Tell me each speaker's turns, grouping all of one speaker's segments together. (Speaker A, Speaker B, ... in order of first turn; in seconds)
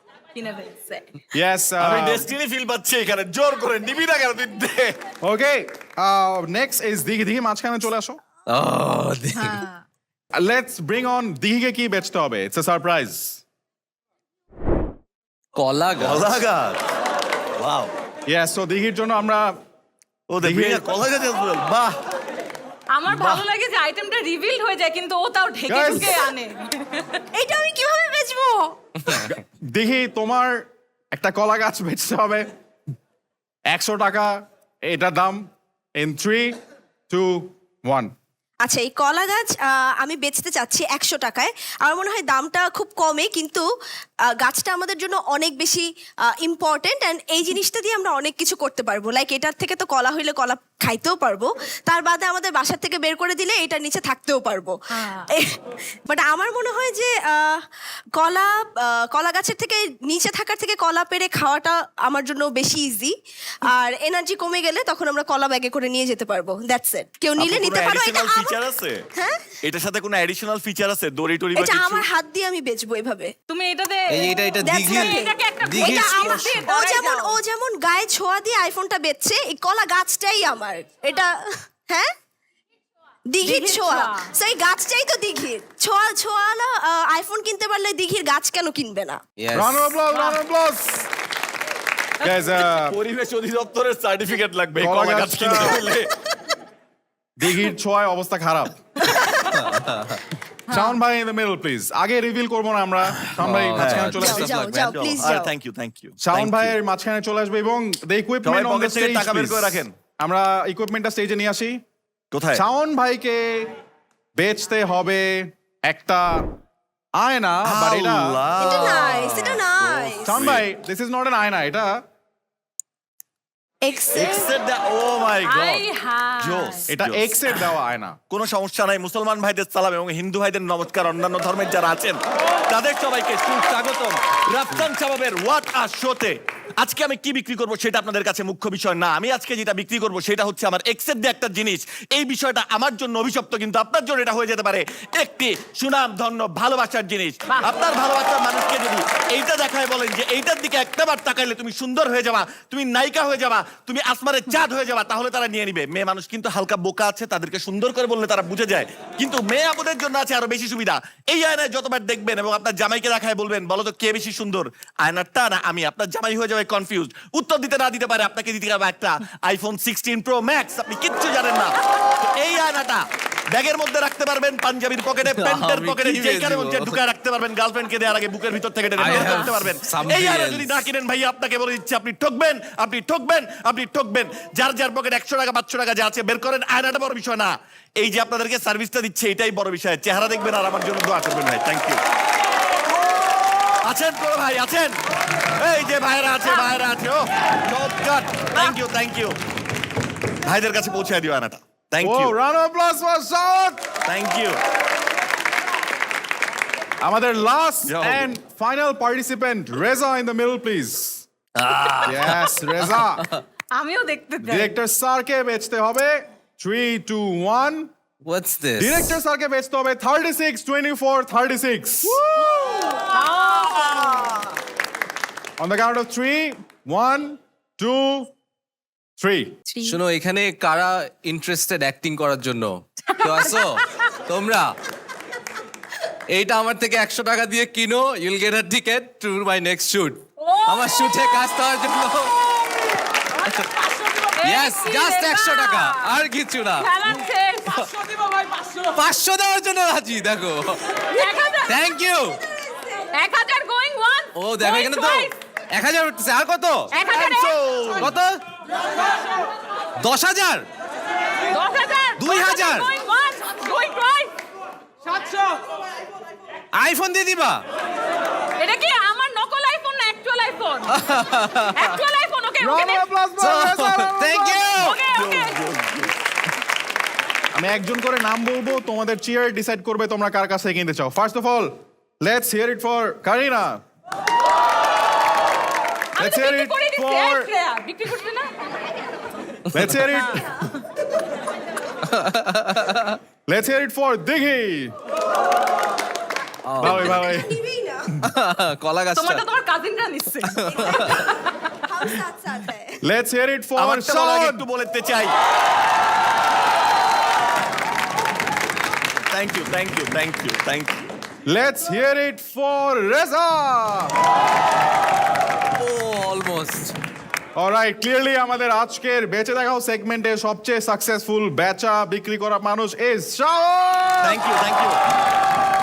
Speaker A: 0.3-1.1, 9.3-9.8, 22.9-27.2, 54.9-55.3, 73.5-77.4, 83.4-84.3, 100.7-101.0, 125.4-126.9, 147.5-147.7, 213.7-214.7, 222.4-224.3, 233.2-233.5, 240.4-241.4, 244.2-246.1, 246.8-247.9, 251.1-251.8, 253.1-255.3, 256.9-257.6, 261.5-264.3, 268.6-271.0, 271.7-273.1, 274.7-275.6, 286.2-288.5, 290.1-290.7, 299.1-301.3
Speaker B: 1.3-2.3, 5.2-8.2, 10.3-13.4, 18.3-19.5, 20.4-20.9, 25.7-26.1, 29.2-32.5, 33.7-35.4, 36.0-36.6, 37.1-38.1, 89.5-91.1, 92.2-93.0, 94.8-95.8, 97.4-98.8, 100.7-104.4, 106.2-111.8, 112.5-113.7, 114.3-116.5, 117.2-118.3, 120.1-122.0, 126.9-128.2, 202.0-203.8, 207.0-211.2, 212.0-213.2, 214.4-217.9, 218.8-222.2, 225.6-228.3, 229.2-229.6, 272.6-274.7, 277.5-283.8, 286.2-287.5, 289.7-290.5, 293.5-294.9, 296.8-297.5, 303.0-304.6, 311.4-314.1, 317.6-324.4
Speaker C: 1.8-5.0, 16.0-16.8, 17.6-17.9, 20.3-22.0, 23.1-23.4, 67.4-69.0, 69.6-72.0, 92.6-96.1, 103.8-106.8, 108.4-109.9, 112.3-112.6, 117.7-120.6, 124.1-125.8, 126.4-127.7, 128.3-192.0, 193.8-195.0, 195.6-199.4, 200.4-202.3, 204.1-204.6, 207.9-208.3, 257.1-258.1, 275.1-276.1, 303.8-305.3, 309.3-311.1, 324.2-325.0
Speaker D: 8.5-9.6, 15.5-16.3, 74.1-76.6, 89.4-89.9, 99.5-100.2, 103.4-105.1, 175.2-177.0, 179.0-180.8, 211.6-213.4, 218.2-219.2, 229.8-234.8, 236.3-242.4, 243.4-243.8, 244.4-246.9, 248.8-251.1, 251.7-252.4, 254.3-256.9, 258.0-258.4, 260.0-260.6, 262.2-262.9, 266.7-267.6, 270.9-272.0, 273.4-275.0, 292.1-293.2, 296.6-297.3, 298.2-299.4, 300.5-301.2, 315.8-316.9
Speaker E: 27.3-28.8, 38.6-43.6, 44.3-54.7, 55.3-57.6, 58.2-68.6, 69.2-69.5, 71.5-73.3, 74.6-81.3, 81.9-82.1, 83.3-89.2, 99.0-99.6, 104.1-105.5, 118.6-120.4, 123.8-124.5, 222.4-222.9, 223.9-224.3, 296.8-298.2, 300.7-303.0